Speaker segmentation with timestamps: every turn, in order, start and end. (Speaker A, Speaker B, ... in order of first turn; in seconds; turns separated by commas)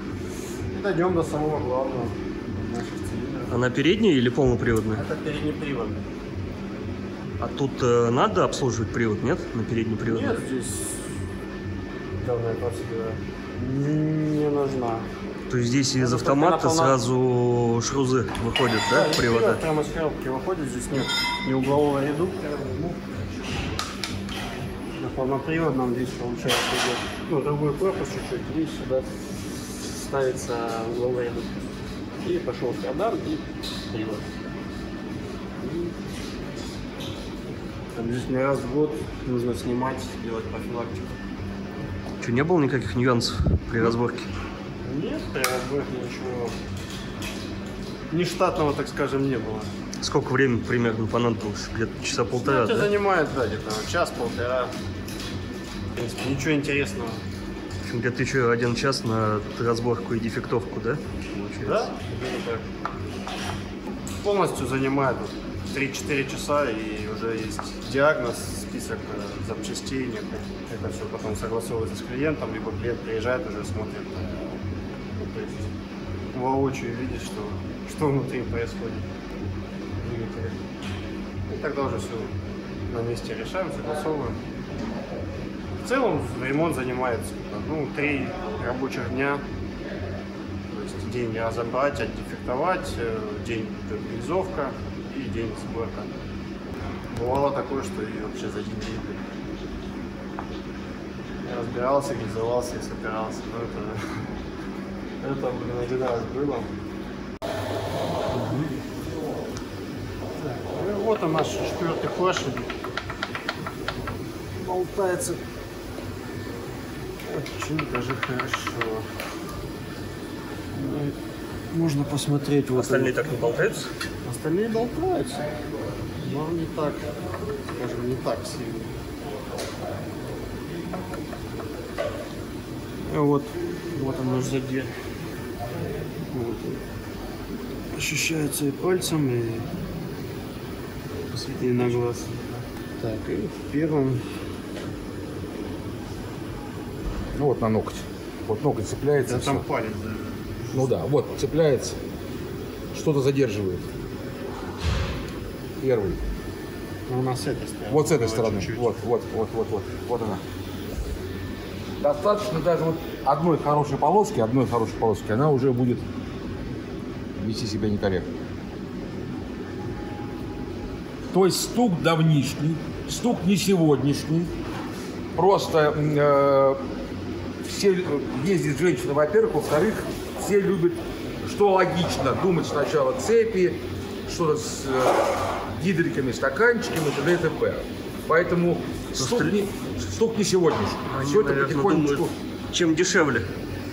Speaker A: 0.7-3.6, Speaker B: 3.5-5.0, Speaker A: 4.9-6.0, Speaker B: 7.4-10.4, Speaker A: 10.0-11.1, Speaker A: 12.2-15.1, Speaker B: 15.5-19.6, Speaker A: 16.0-17.0, Speaker A: 18.9-23.0, Speaker A: 25.0-29.1, Speaker A: 29.8-34.3, Speaker A: 35.6-35.9, Speaker A: 37.9-41.2, Speaker B: 42.2-44.3, Speaker A: 44.8-46.6, Speaker A: 48.1-49.7, Speaker B: 50.0-52.9, Speaker A: 52.3-54.7, Speaker A: 55.9-57.2, Speaker B: 57.8-61.9, Speaker A: 61.6-62.7, Speaker A: 64.2-74.5, Speaker A: 75.1-75.7, Speaker A: 76.3-79.1, Speaker A: 80.0-80.6, Speaker A: 81.5-82.3, Speaker A: 82.9-84.4, Speaker A: 85.8-89.4, Speaker A: 90.7-96.1, Speaker A: 97.1-99.2, Speaker A: 101.4-104.2, Speaker A: 105.2-106.7, Speaker A: 108.3-108.7, Speaker A: 110.4-112.7, Speaker A: 114.6-115.4, Speaker A: 117.2-119.1, Speaker A: 120.7-121.2, Speaker A: 121.7-123.2, Speaker B: 122.7-123.9, Speaker A: 124.2-125.5, Speaker A: 126.2-127.1, Speaker A: 127.7-128.9, Speaker A: 133.0-134.9, Speaker A: 136.3-136.8, Speaker A: 137.9-139.7, Speaker A: 141.3-142.4, Speaker A: 143.0-144.2, Speaker C: 147.3-149.7, Speaker A: 149.2-150.9, Speaker C: 150.7-152.0, Speaker C: 152.9-153.9, Speaker C: 155.8-156.2, Speaker A: 157.1-159.0, Speaker C: 157.9-160.4, Speaker C: 162.0-166.1, Speaker C: 167.4-168.3, Speaker C: 171.3-174.5, Speaker C: 175.3-176.8, Speaker C: 177.6-192.3, Speaker B: 189.1-189.6, Speaker B: 191.1-193.5